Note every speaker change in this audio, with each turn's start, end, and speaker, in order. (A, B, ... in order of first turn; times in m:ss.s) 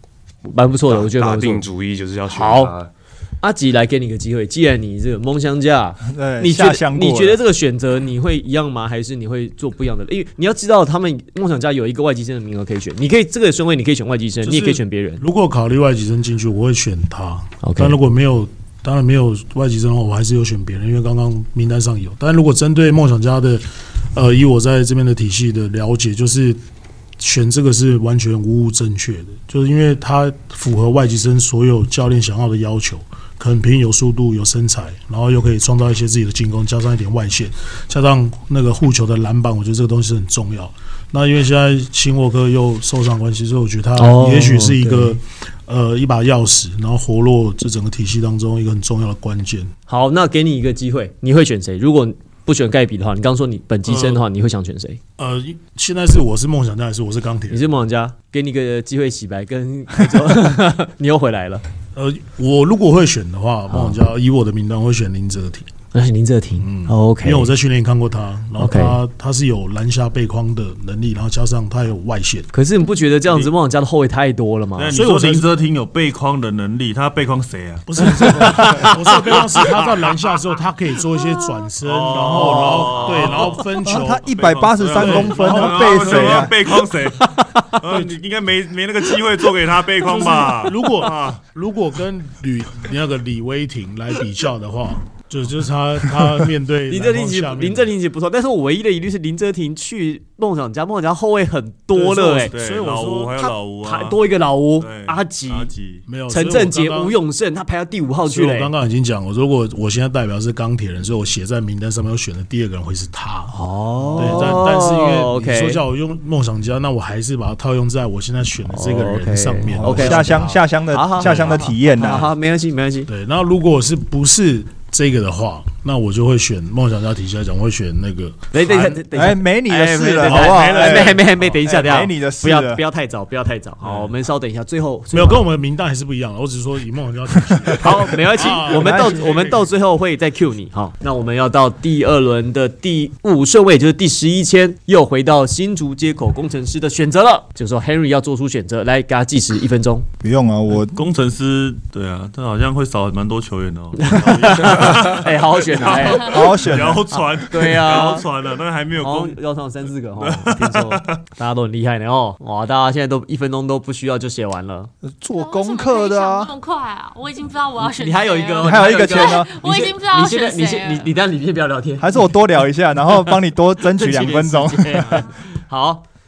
0:00.5-0:01.6 A
0:00.8-0:02.9 B
0:02.3-0:02.7 A
0:03.4-0:15.2 A
0:06.0-0:07.4 C
0:14.4-0:26.6 D
0:17.6-0:18.0 A
0:27.2-0:49.7 D
0:44.0-0:45.2 A
0:49.9-0:55.0 A
0:53.9-0:54.2 D
0:55.2-0:57.6 D
0:57.5-1:01.6 A
1:01.9-1:05.7 D
1:03.7-1:04.0 A
1:05.9-1:07.5 A
1:06.6-1:12.5 D
1:08.6-1:09.0 A
1:12.5-1:14.9 A
1:14.8-1:18.4 E
1:14.9-1:15.5 D
1:17.9-1:26.5 D
1:18.2-1:19.4 A
1:21.8-1:23.7 E
1:22.5-1:26.5 C
1:24.4-1:31.4 E
1:27.2-1:27.7 A
1:27.9-1:28.1 D
1:30.0-1:37.9 D
1:36.9-1:42.5 A
1:42.0-1:43.4 D
1:42.2-1:44.2 E
1:43.4-1:45.7 A
1:44.8-1:46.0 E
1:46.0-1:47.2 D
1:46.3-1:48.7 A
1:48.3-1:53.5 D
1:53.5-1:55.8 A
1:54.2-2:00.6 D
1:58.7-2:03.1 A
1:59.8-2:02.3 C
2:01.2-2:01.7 D
2:03.1-2:09.0 D
2:08.5-2:15.4 A
2:09.1-2:12.8 C
2:10.4-2:10.9 D
2:15.1-2:19.5 D
2:17.8-2:30.1 A
2:18.6-2:19.5 C
2:30.2-2:31.0 C
2:30.7-2:39.4 E
2:34.0-2:38.2 A
2:36.2-2:37.0 C
2:39.0-2:44.9 A
2:40.2-2:41.2 E
2:45.1-2:46.5 C
2:45.4-2:51.1 F
2:47.8-2:52.4 A
2:48.6-2:49.5 C
2:52.0-2:55.3 C
2:53.1-2:56.0 A